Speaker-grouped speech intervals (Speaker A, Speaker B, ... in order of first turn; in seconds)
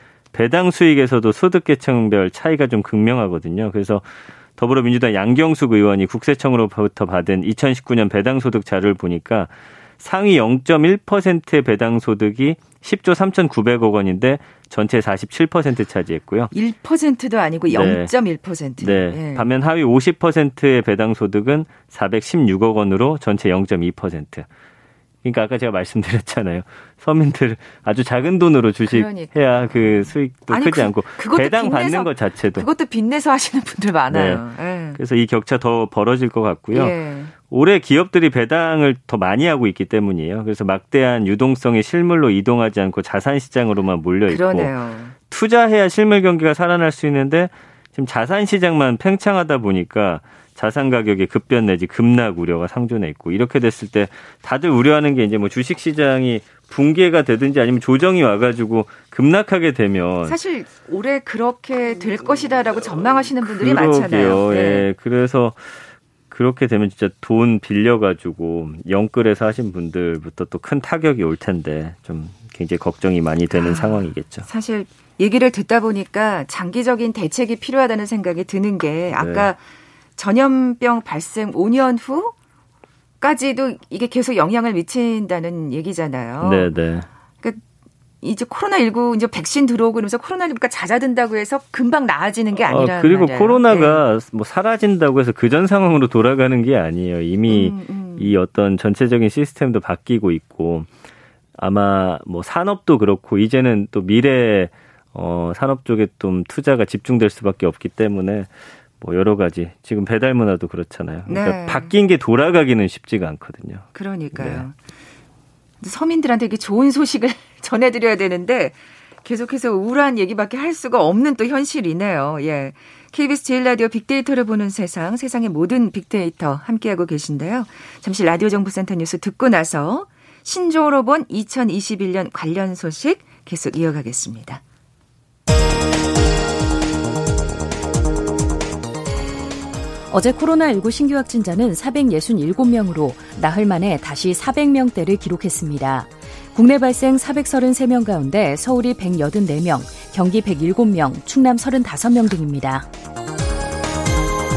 Speaker A: 0.3-16.5, 17.7-18.1, 18.8-24.5, 25.2-32.7, 34.1-34.4, 35.0-36.9, 37.5-44.7, 45.3-60.4, 63.5-74.5, 79.2-79.5, 86.4-87.1, 92.7-100.9, 101.5-114.7
Speaker B: 16.5-19.4, 28.9-29.3, 30.5-35.0, 36.7-37.3, 44.3-45.1, 60.2-64.9, 73.5-79.6, 80.2-82.3, 83.2-86.7, 88.2-94.0, 97.5-98.3, 111.3-111.9, 113.9-114.8, 115.8-134.6
Speaker C: 140.1-152.9